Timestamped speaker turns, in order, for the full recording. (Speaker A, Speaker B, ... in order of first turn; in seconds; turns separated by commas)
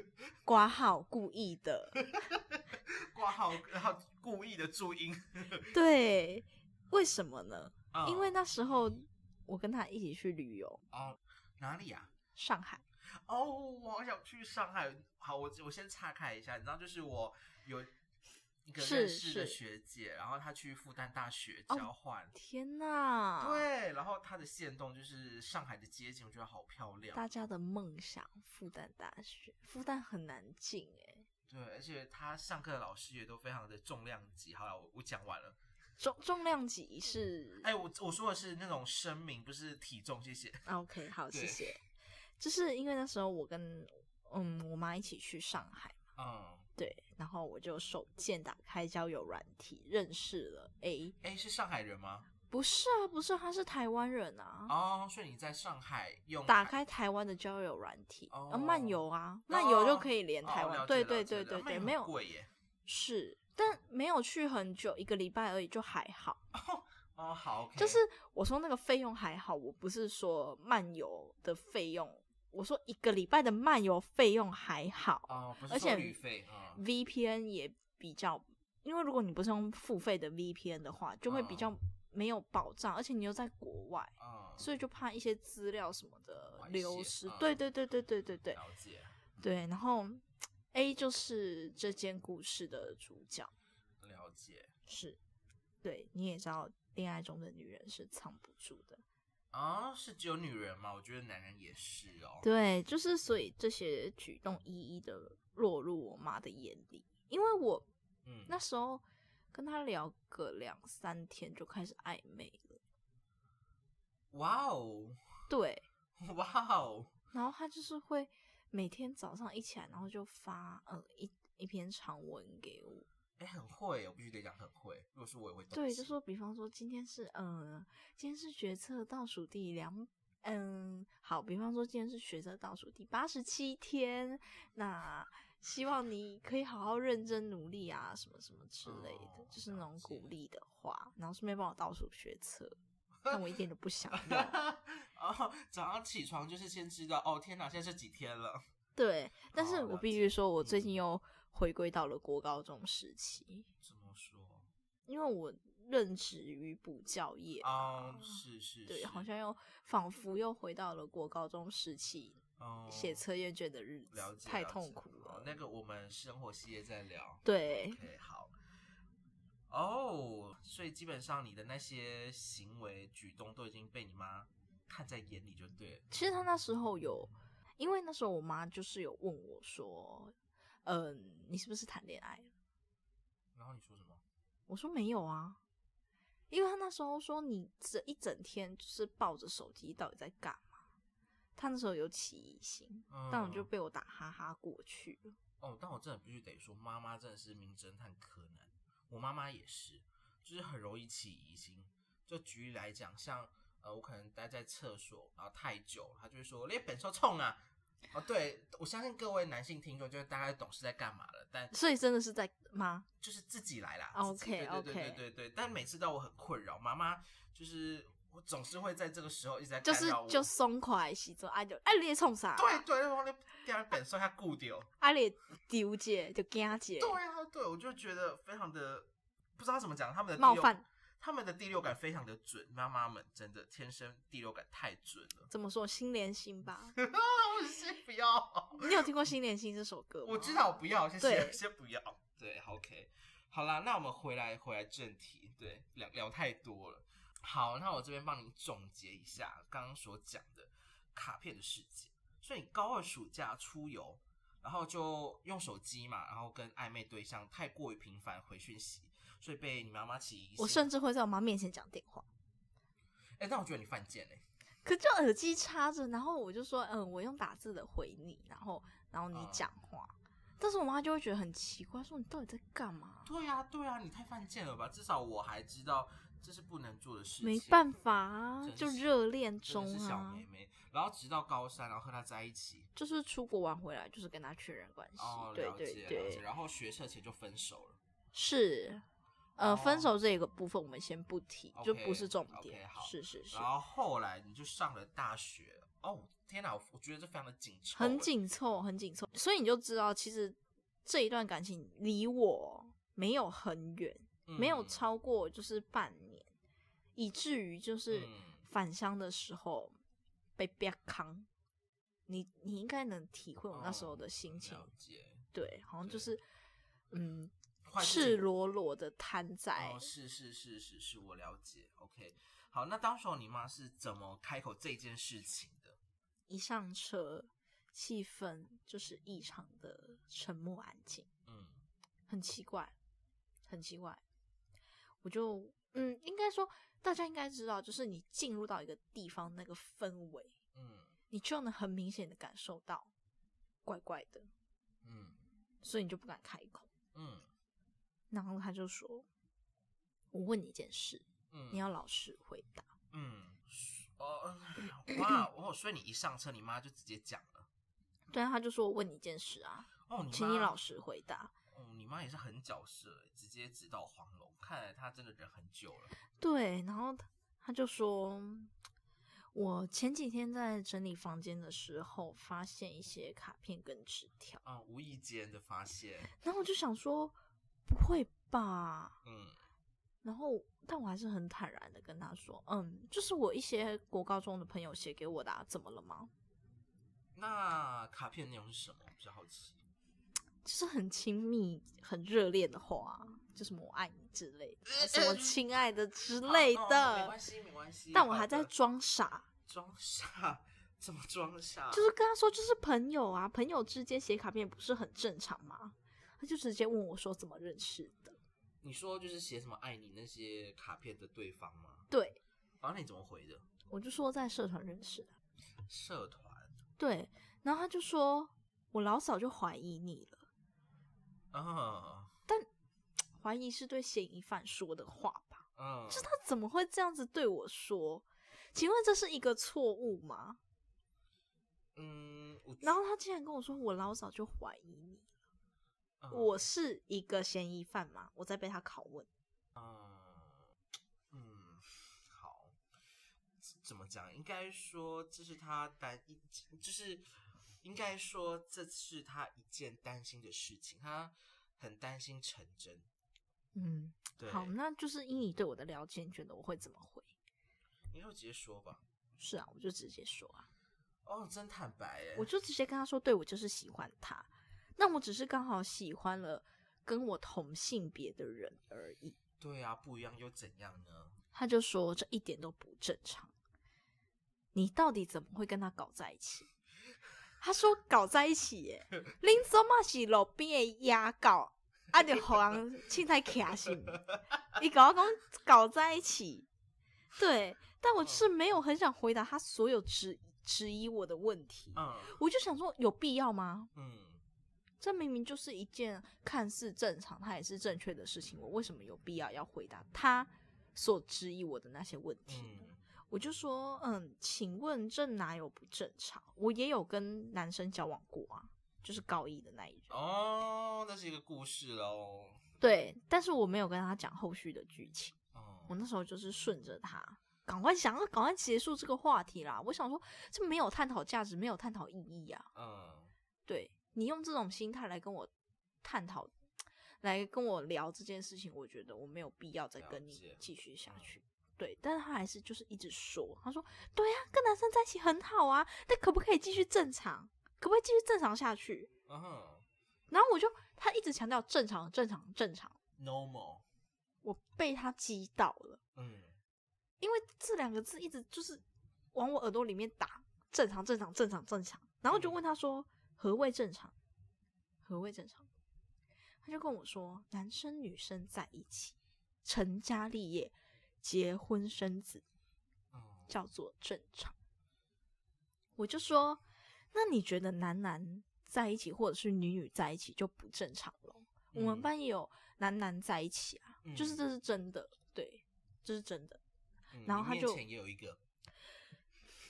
Speaker A: 0.5-2.0, Speaker B: 2.2-5.7, Speaker A: 5.7-10.8, Speaker B: 7.9-8.4, Speaker B: 10.9-12.1, Speaker A: 12.3-12.8, Speaker B: 13.0-17.9, Speaker B: 18.6-22.3, Speaker A: 18.8-19.6, Speaker A: 21.7-23.6, Speaker B: 23.4-27.2, Speaker A: 27.1-31.3, Speaker B: 31.5-35.6, Speaker A: 36.0-37.7, Speaker B: 37.6-40.7, Speaker A: 40.6-41.8, Speaker B: 41.3-41.7, Speaker A: 42.4-46.0, Speaker B: 46.1-46.7, Speaker A: 46.8-51.1, Speaker B: 51.2-52.3, Speaker A: 52.5-54.7, Speaker B: 54.7-56.8, Speaker A: 56.5-62.1, Speaker B: 58.3-62.5, Speaker A: 62.9-66.4, Speaker B: 66.5-68.0, Speaker A: 67.8-76.2, Speaker B: 75.3-76.8, Speaker A: 76.7-88.6, Speaker B: 81.3-81.7, Speaker B: 84.2-84.7, Speaker B: 86.6-87.6, Speaker B: 88.5-89.2, Speaker A: 89.4-93.5, Speaker B: 94.0-94.7, Speaker A: 94.9-95.2, Speaker A: 95.8-99.0, Speaker B: 99.5-102.5, Speaker A: 102.4-107.8, Speaker B: 108.2-108.5, Speaker A: 108.5-112.8, Speaker B: 114.3-115.2, Speaker A: 115.5-115.8, Speaker B: 116.2-117.1, Speaker A: 117.3-123.0, Speaker B: 123.4-126.1, Speaker A: 125.7-142.8, Speaker B: 138.8-140.3, Speaker A: 143.3-144.5, Speaker B: 144.1-148.6, Speaker A: 148.9-153.7, Speaker B: 149.5-150.9, Speaker B: 153.8-154.7, Speaker A: 155.1-165.6, Speaker B: 157.6-159.3, Speaker B: 162.6-163.2, Speaker B: 164.1-168.5, Speaker A: 167.4-168.0, Speaker B: 169.7-176.1, Speaker A: 176.1-182.5, Speaker B: 183.5-184.2, Speaker A: 184.7-185.6, Speaker A: 186.5-190.7, Speaker A: 191.6-195.3, Speaker B: 193.1-193.7, Speaker B: 195.6-211.7, Speaker A: 211.7-213.1, Speaker B: 213.2-220.5, Speaker A: 214.1-215.2, Speaker A: 219.8-222.8, Speaker B: 222.6-224.9, Speaker A: 225.0-227.2, Speaker B: 227.0-235.5, Speaker A: 230.4-230.8, Speaker A: 235.5-236.9, Speaker B: 236.9-239.1, Speaker A: 238.8-240.7, Speaker B: 240.2-260.9, Speaker A: 241.2-241.6, Speaker A: 260.6-262.2, Speaker B: 263.4-264.4, Speaker A: 264.8-273.3, Speaker B: 269.3-269.7, Speaker B: 273.2-277.8, Speaker A: 277.4-280.4, Speaker B: 278.6-279.1, Speaker B: 279.6-282.9, Speaker A: 282.9-286.4, Speaker B: 285.2-288.0, Speaker A: 288.3-289.0, Speaker A: 289.6-293.7, Speaker B: 289.6-290.1, Speaker B: 291.7-298.3, Speaker A: 297.9-306.5, Speaker B: 304.4-305.0, Speaker A: 307.1-310.0, Speaker B: 308.1-308.6, Speaker A: 310.6-311.5, Speaker A: 312.3-314.9, Speaker B: 313.7-316.3, Speaker A: 315.5-316.4, Speaker A: 317.1-320.1, Speaker B: 317.8-318.4, Speaker B: 319.8-326.0, Speaker A: 326.5-331.3, Speaker B: 331.4-331.8, Speaker A: 332.3-332.9, Speaker A: 333.7-334.2, Speaker A: 335.2-340.5, Speaker B: 340.7-341.1, Speaker A: 341.3-343.1, Speaker A: 343.8-344.5, Speaker B: 345.0-345.4, Speaker A: 345.8-346.9, Speaker B: 347.1-347.5, Speaker A: 348.3-349.2, Speaker A: 350.3-352.9, Speaker B: 351.5-351.9, Speaker B: 353.1-357.7, Speaker A: 358.3-361.5, Speaker B: 360.1-360.8, Speaker B: 361.7-366.1, Speaker A: 366.4-368.7, Speaker A: 369.5-374.6, Speaker B: 374.6-376.3, Speaker A: 376.4-377.3, Speaker A: 377.9-379.2, Speaker B: 379.2-379.6, Speaker A: 380.2-386.3, Speaker B: 387.3-389.8, Speaker A: 390.6-397.3, Speaker B: 394.9-395.6, Speaker B: 396.4-398.7, Speaker A: 398.1-399.5, Speaker B: 399.6-402.1, Speaker A: 401.9-408.4, Speaker B: 408.8-412.1, Speaker A: 412.1-412.4, Speaker B: 412.8-413.6, Speaker A: 413.9-415.3, Speaker B: 415.9-416.7, Speaker A: 417.0-420.5, Speaker B: 421.5-422.3, Speaker A: 423.4-430.6, Speaker B: 425.8-426.3, Speaker B: 431.9-433.0, Speaker A: 432.8-435.3, Speaker B: 436.2-436.6, Speaker A: 436.3-439.3, Speaker B: 439.7-440.7, Speaker B: 441.3-442.8, Speaker B: 443.6-453.1, Speaker A: 453.7-457.3, Speaker B: 454.4-454.7, Speaker B: 458.1-459.0, Speaker A: 459.4-460.7, Speaker B: 461.2-462.5, Speaker A: 462.4-469.4, Speaker B: 469.6-471.4, Speaker A: 471.5-473.5, Speaker A: 474.7-476.7, Speaker A: 477.6-484.2, Speaker A: 484.7-486.7, Speaker A: 487.4-493.9, Speaker B: 488.2-488.5, Speaker B: 491.9-492.4, Speaker B: 493.9-494.4, Speaker A: 495.0-510.1, Speaker B: 502.5-503.0, Speaker B: 510.1-512.6, Speaker A: 512.8-515.3, Speaker B: 515.5-516.0, Speaker A: 515.9-522.7, Speaker B: 522.7-523.3, Speaker A: 523.6-525.5, Speaker A: 526.0-526.5, Speaker A: 527.2-539.1, Speaker B: 530.0-531.3, Speaker B: 539.3-539.8, Speaker A: 540.3-543.0, Speaker B: 543.2-543.8, Speaker A: 544.4-546.0, Speaker B: 546.1-546.5, Speaker A: 547.2-548.8, Speaker A: 549.3-554.1, Speaker B: 552.3-552.6, Speaker A: 555.0-555.7, Speaker A: 556.6-562.4, Speaker B: 563.1-563.5, Speaker A: 563.5-564.5, Speaker A: 566.0-566.6, Speaker A: 567.1-576.6, Speaker B: 571.7-572.1, Speaker B: 574.0-574.4, Speaker B: 577.1-578.4, Speaker A: 577.2-577.8